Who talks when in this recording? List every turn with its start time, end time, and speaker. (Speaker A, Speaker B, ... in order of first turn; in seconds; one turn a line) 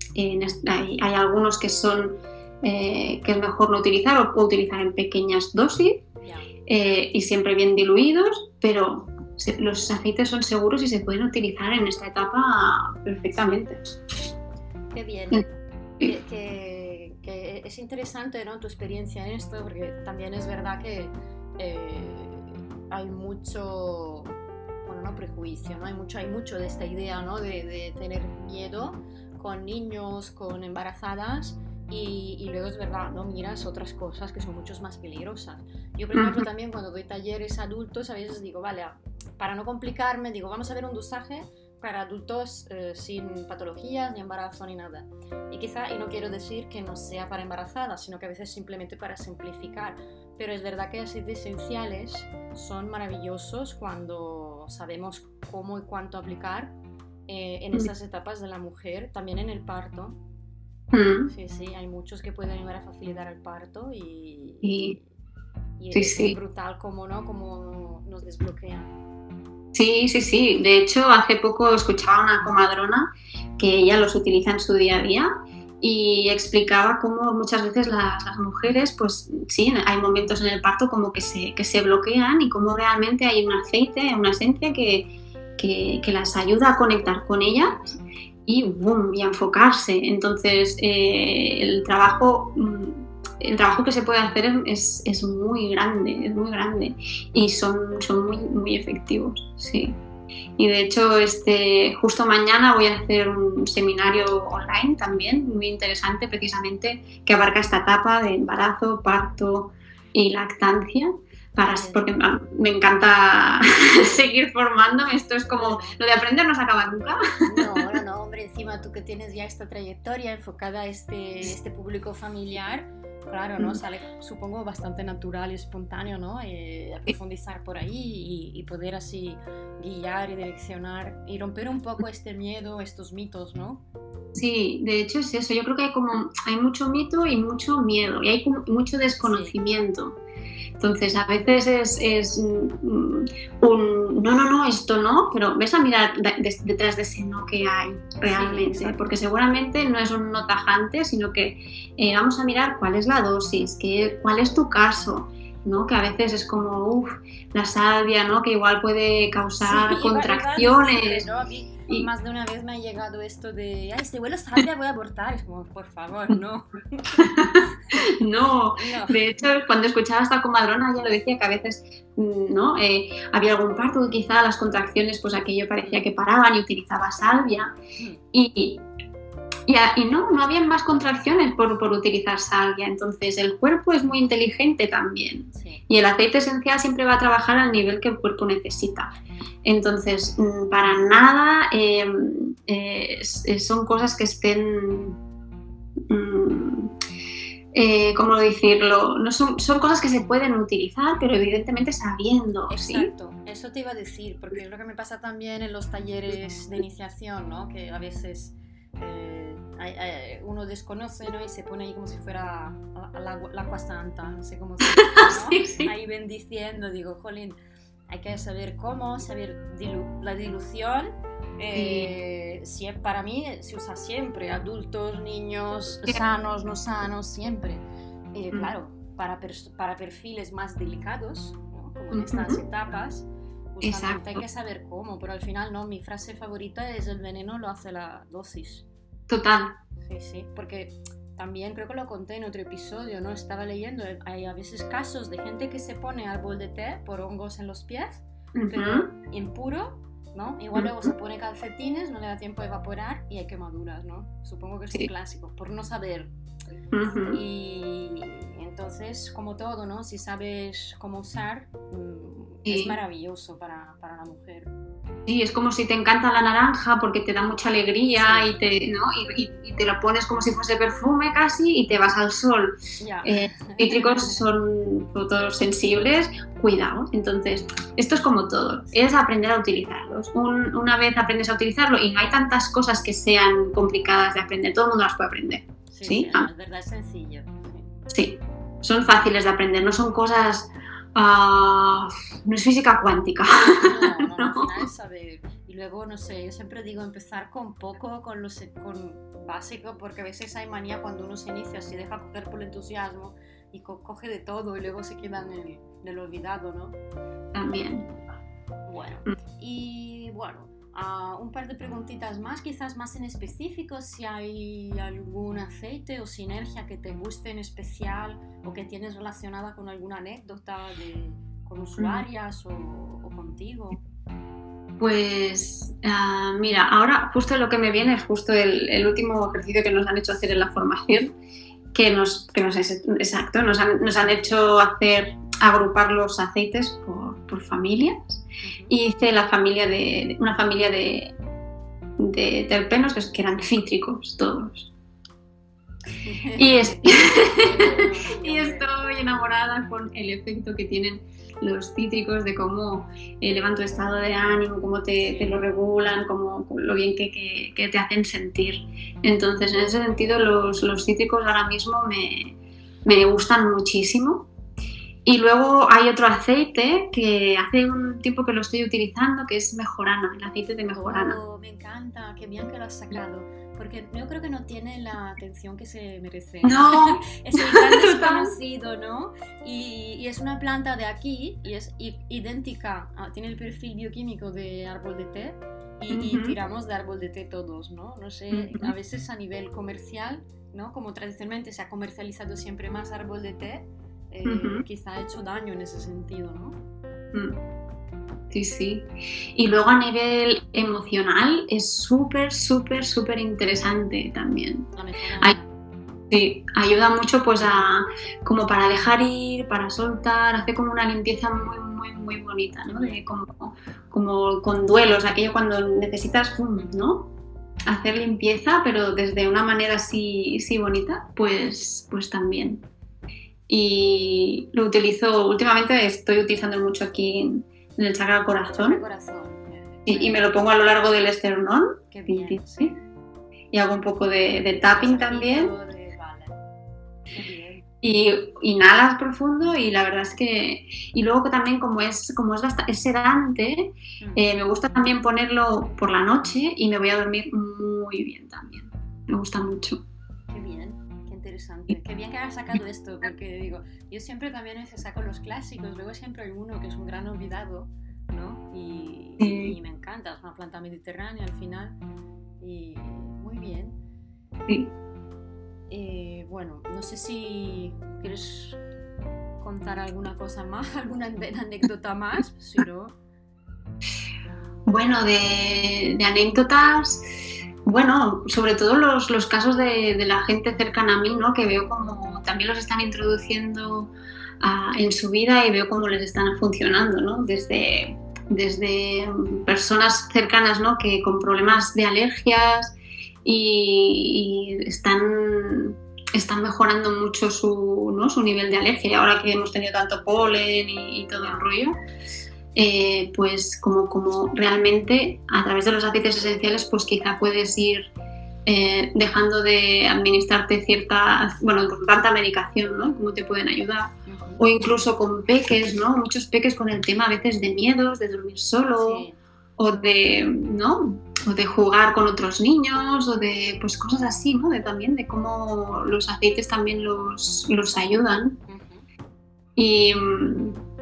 Speaker A: 0.1-6.0
Speaker B: 6.2-6.5
Speaker A: 6.7-13.8
Speaker B: 14.9-15.5
Speaker B: 16.0-56.7
Speaker A: 36.1-36.5
Speaker B: 57.3-60.2
Speaker A: 60.9-61.3
Speaker B: 61.3-65.0
Speaker A: 64.6-65.0
Speaker B: 65.8-68.9
Speaker A: 65.9-66.4
Speaker A: 69.7-75.3
Speaker A: 75.8-87.8
Speaker A: 88.5-100.0
Speaker A: 100.6-117.8
Speaker B: 111.6-112.1
Speaker B: 113.9-114.2
Speaker B: 115.5-116.0
Speaker B: 117.4-133.8
Speaker A: 134.3-140.2
Speaker B: 139.2-139.5
Speaker A: 140.8-161.3
Speaker B: 148.2-149.0
Speaker B: 159.6-167.6
Speaker A: 167.2-177.7
Speaker B: 168.8-169.4
Speaker B: 178.0-178.2
Speaker A: 178.3-178.8
Speaker A: 179.7-189.1
Speaker B: 185.5-185.8
Speaker A: 189.6-195.2
Speaker A: 196.1-196.9
Speaker A: 197.7-203.1
Speaker B: 202.7-217.6
Speaker A: 215.0-215.9
Speaker B: 218.1-238.9
Speaker A: 221.8-222.1
Speaker A: 232.1-232.6
Speaker A: 233.8-234.4
Speaker A: 239.3-239.8
Speaker B: 240.0-256.3
Speaker A: 248.6-249.1
Speaker A: 250.8-251.1
Speaker A: 256.9-257.4
Speaker B: 257.1-264.7
Speaker A: 262.7-263.0
Speaker A: 265.3-286.5
Speaker B: 268.1-268.6
Speaker B: 273.0-274.4
Speaker B: 285.9-287.9
Speaker A: 288.1-294.8
Speaker B: 293.7-307.0
Speaker A: 307.5-308.1
Speaker B: 308.9-324.0
Speaker A: 322.0-322.3
Speaker A: 325.0-331.4
Speaker A: 331.9-341.4
Speaker B: 338.6-339.0
Speaker A: 342.2-344.9
Speaker B: 346.2-348.9
Speaker A: 346.6-364.5
Speaker B: 355.2-355.6
Speaker A: 365.2-371.4
Speaker B: 370.9-396.8
Speaker A: 376.6-378.5
Speaker A: 386.1-386.6
Speaker A: 388.5-388.9
Speaker A: 394.5-394.9
Speaker A: 397.3-397.6
Speaker A: 398.5-404.9
Speaker B: 404.9-405.7
Speaker A: 406.3-417.3
Speaker B: 412.9-413.2
Speaker A: 417.9-422.9
Speaker A: 423.7-429.0
Speaker B: 428.6-430.5
Speaker A: 430.1-432.9
Speaker B: 432.1-433.0
Speaker A: 433.7-435.7
Speaker B: 434.7-436.6
Speaker B: 437.3-437.9
Speaker A: 438.0-450.0
Speaker B: 450.5-462.0
Speaker A: 459.4-459.8
Speaker B: 462.6-464.0
Speaker A: 464.7-464.9
Speaker B: 465.9-468.8
Speaker B: 469.6-473.1
Speaker A: 474.9-477.3
Speaker A: 477.9-501.9
Speaker B: 501.4-501.7
Speaker A: 502.8-508.1
Speaker A: 508.7-519.3
Speaker B: 514.3-514.7
Speaker B: 519.0-519.4
Speaker A: 519.8-528.6
Speaker B: 528.7-529.0
Speaker A: 529.8-530.8